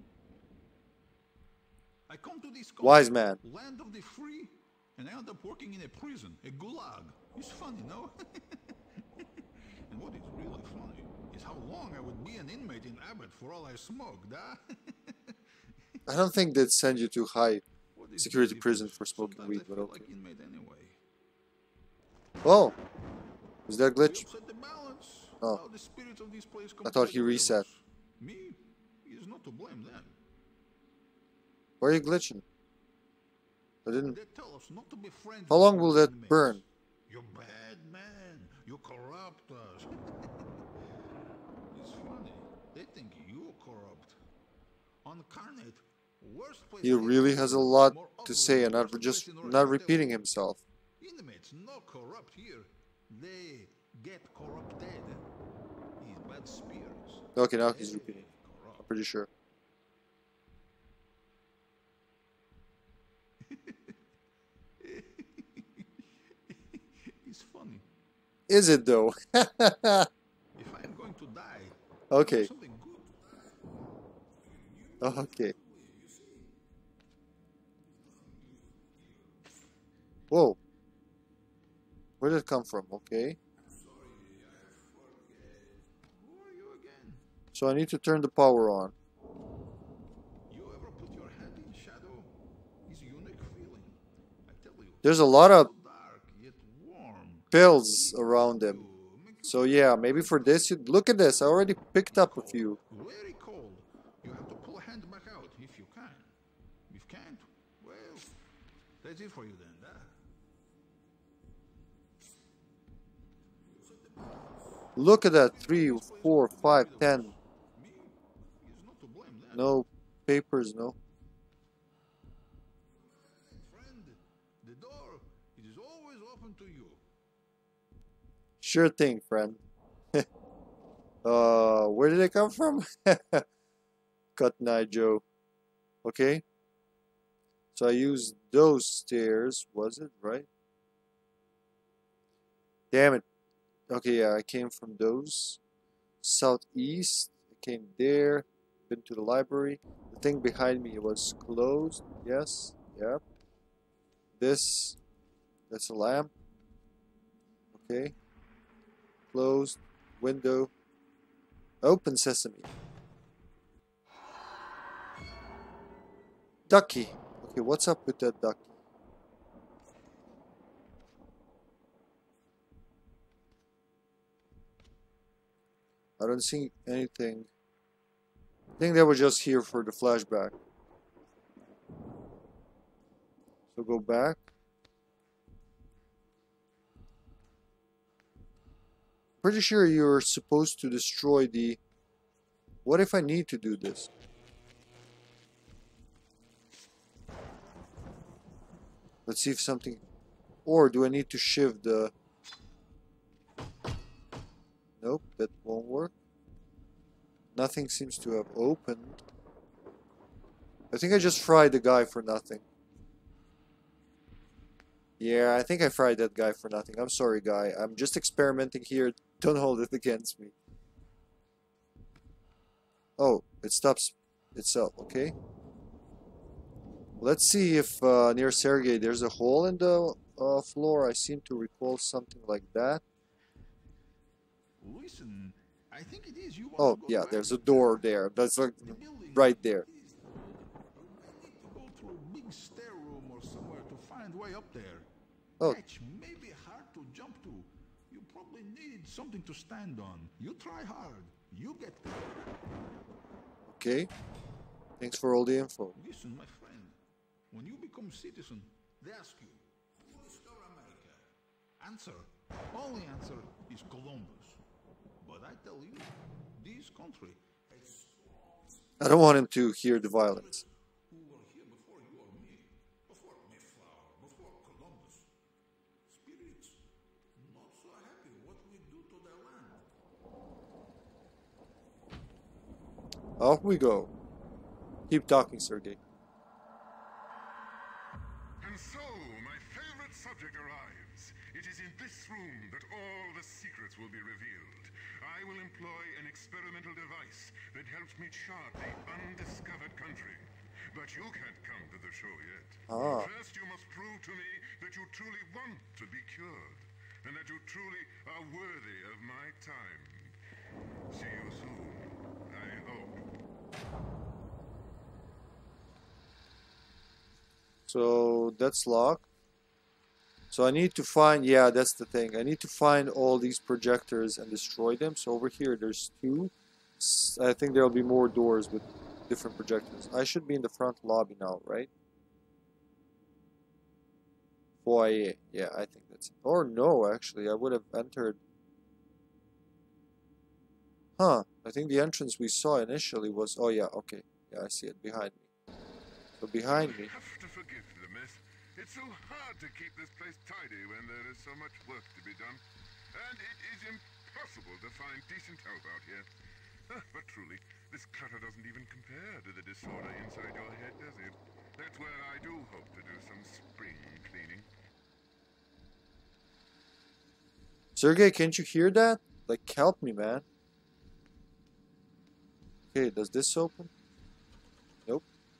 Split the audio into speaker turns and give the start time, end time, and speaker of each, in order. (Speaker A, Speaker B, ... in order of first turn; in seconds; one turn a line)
Speaker A: 2.1-9.2
Speaker B: 2.8-3.4
Speaker A: 9.9-15.3
Speaker B: 16.1-17.6
Speaker A: 17.9-21.0
Speaker B: 18.2-20.1
Speaker B: 22.4-22.8
Speaker B: 23.7-24.3
Speaker A: 24.0-30.1
Speaker B: 26.8-27.6
Speaker B: 31.8-32.4
Speaker B: 33.9-34.2
Speaker A: 34.0-40.0
Speaker B: 35.5-36.6
Speaker A: 41.7-44.2
Speaker A: 45.0-50.2
Speaker B: 46.8-50.6
Speaker A: 51.0-55.2
Speaker A: 56.0-58.9
Speaker B: 57.4-58.2
Speaker B: 58.8-59.3
Speaker A: 63.5-63.9
Speaker A: 64.8-65.9
Speaker A: 66.5-67.9
Speaker B: 68.5-70.1
Speaker A: 70.5-76.5
Speaker B: 72.1-72.5
Speaker B: 75.0-75.5
Speaker A: 77.9-79.6
Speaker B: 80.3-80.6
Speaker B: 82.2-83.4
Speaker A: 83.6-87.2
Speaker B: 87.5-88.9
Speaker A: 90.5-92.3
Speaker A: 92.8-100.7
Speaker B: 95.0-95.7
Speaker B: 97.5-98.8
Speaker B: 99.4-102.8
Speaker A: 102.1-106.3
Speaker A: 106.9-108.3
Speaker A: 109.0-110.1
Speaker A: 113.7-119.8
Speaker B: 115.0-117.3
Speaker B: 119.5-121.0
Speaker A: 122.9-127.0
Speaker B: 128.6-129.6
Speaker B: 131.2-133.4
Speaker B: 134.3-135.2
Speaker B: 136.0-136.4
Speaker B: 137.7-140.5
Speaker B: 142.9-143.2
Speaker B: 143.9-145.6
Speaker B: 146.2-153.2
Speaker B: 154.4-155.0
Speaker B: 155.7-156.3
Speaker B: 157.7-158.1
Speaker B: 159.3-160.7
Speaker B: 161.8-162.7
Speaker B: 166.7-168.7
Speaker B: 176.2-177.5
Speaker B: 178.8-180.5
Speaker B: 183.7-184.4
Speaker B: 189.4-191.8
Speaker B: 192.8-194.1
Speaker B: 199.2-200.0
Speaker B: 200.7-202.1
Speaker B: 205.0-206.1
Speaker B: 207.5-209.2
Speaker B: 210.9-212.6
Speaker B: 215.2-220.5
Speaker B: 223.2-225.3
Speaker B: 227.2-233.0
Speaker A: 234.8-238.2
Speaker B: 236.8-239.8
Speaker A: 238.8-245.1
Speaker A: 245.6-252.3
Speaker B: 253.7-254.1
Speaker B: 255.0-256.0
Speaker A: 255.9-257.0
Speaker A: 257.5-264.6
Speaker A: 265.2-268.9
Speaker B: 269.0-270.6
Speaker A: 270.2-275.3
Speaker A: 276.1-279.9
Speaker B: 283.4-284.1
Speaker B: 285.1-286.0
Speaker C: 288.6-310.4
Speaker B: 302.9-303.3
Speaker C: 311.1-313.2
Speaker B: 317.9-319.2
Speaker B: 320.5-331.9
Speaker B: 334.8-338.4
Speaker B: 341.2-345.4
Speaker B: 346.4-347.1
Speaker C: 346.6-356.3
Speaker C: 356.9-364.7
Speaker B: 367.9-370.4
Speaker B: 372.9-373.9